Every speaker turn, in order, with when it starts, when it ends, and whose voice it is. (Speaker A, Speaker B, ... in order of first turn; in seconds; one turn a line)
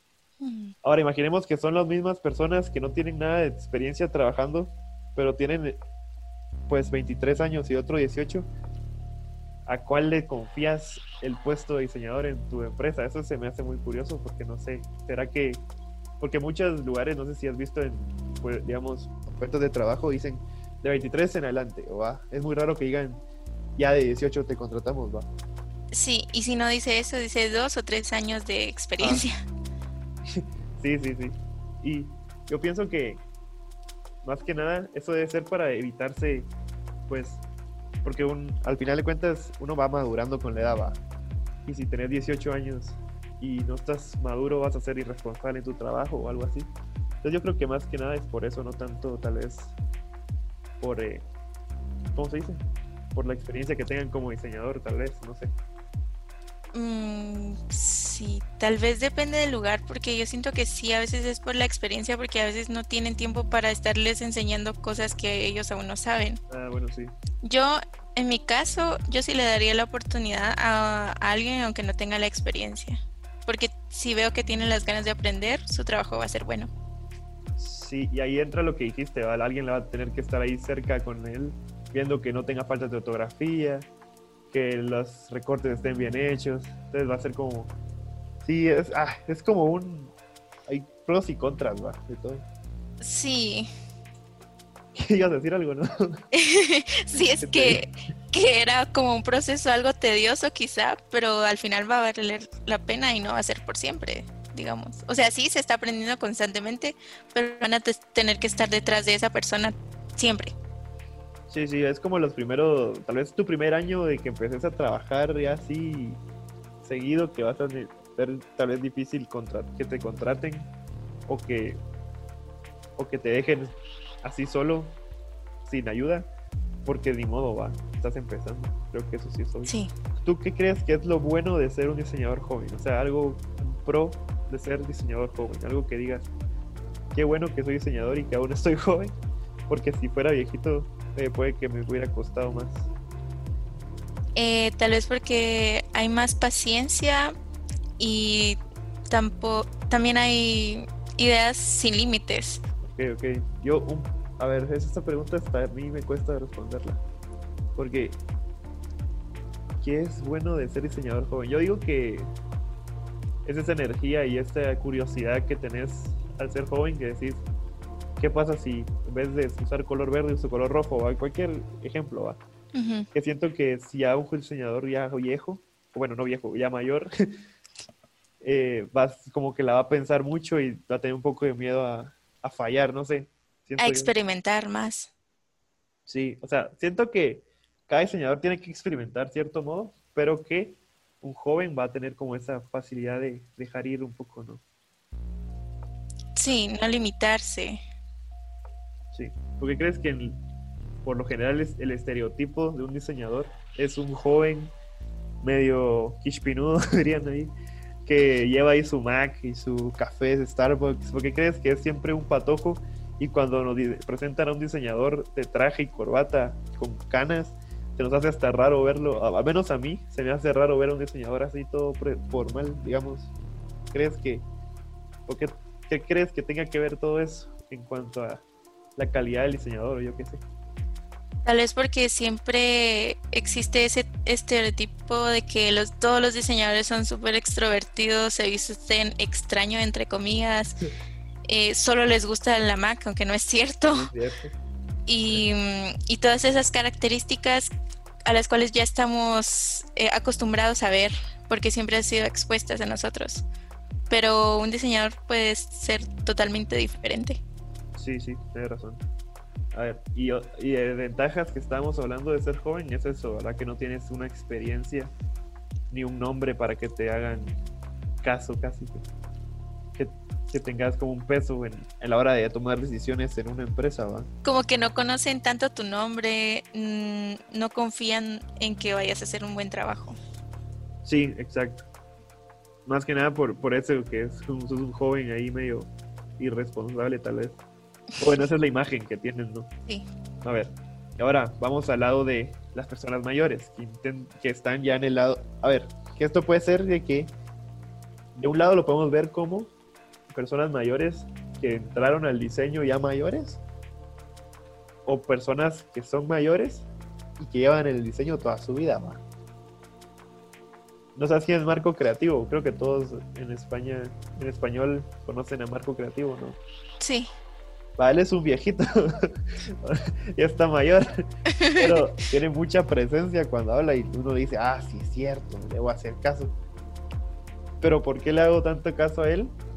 Speaker A: 0.4-0.7
Speaker B: 0.8-5.8
Speaker B: 6.7-8.5
Speaker B: 9.7-15.7
Speaker B: 16.2-23.2
Speaker B: 23.8-25.3
Speaker A: 25.9-29.4
Speaker B: 29.0-29.2
Speaker B: 30.3-33.2
Speaker B: 34.2-36.5
Speaker B: 37.1-37.4
Speaker B: 38.0-41.0
Speaker B: 41.7-46.7
Speaker B: 47.2-49.8
Speaker B: 50.8-51.3
Speaker B: 52.1-55.5
Speaker A: 56.7-66.4
Speaker B: 66.5-67.2
Speaker A: 67.4-76.7
Speaker B: 77.6-83.9
Speaker B: 84.5-87.7
Speaker B: 88.4-90.1
Speaker B: 90.7-92.5
Speaker A: 93.0-93.7
Speaker B: 95.0-96.2
Speaker A: 96.3-110.5
Speaker B: 97.2-97.8
Speaker B: 111.5-116.2
Speaker B: 116.8-120.7
Speaker B: 121.3-121.8
Speaker B: 123.0-125.0
Speaker B: 125.7-126.3
Speaker B: 126.8-136.3
Speaker B: 137.1-139.2
Speaker B: 139.7-142.9
Speaker A: 144.4-147.3
Speaker A: 148.0-152.6
Speaker B: 152.9-157.0
Speaker B: 157.8-158.2
Speaker B: 159.8-162.3
Speaker B: 163.4-167.4
Speaker B: 168.2-172.4
Speaker A: 172.7-173.1
Speaker B: 173.1-177.1
Speaker B: 178.4-184.1
Speaker A: 183.8-185.1
Speaker B: 186.1-194.6
Speaker A: 196.4-197.8
Speaker B: 199.1-200.4
Speaker B: 201.0-204.7
Speaker B: 205.4-207.5
Speaker B: 208.1-223.3
Speaker B: 223.9-224.5
Speaker B: 225.3-228.4
Speaker B: 229.0-230.4
Speaker A: 231.4-240.8
Speaker A: 241.5-244.1
Speaker B: 243.9-244.6
Speaker A: 245.1-247.7
Speaker A: 248.2-253.5
Speaker A: 254.1-257.4
Speaker B: 258.0-259.0
Speaker B: 259.7-265.1
Speaker B: 265.9-267.6
Speaker B: 268.2-269.0
Speaker B: 269.9-274.3
Speaker A: 274.4-280.2
Speaker B: 281.1-281.9
Speaker B: 282.9-287.6
Speaker B: 288.2-289.7
Speaker B: 290.4-297.3
Speaker B: 298.4-299.7
Speaker B: 300.3-303.6
Speaker B: 305.1-306.9
Speaker B: 307.4-309.2
Speaker B: 311.2-316.6
Speaker A: 317.0-317.3
Speaker B: 318.0-326.5
Speaker A: 321.6-321.9
Speaker B: 327.8-329.6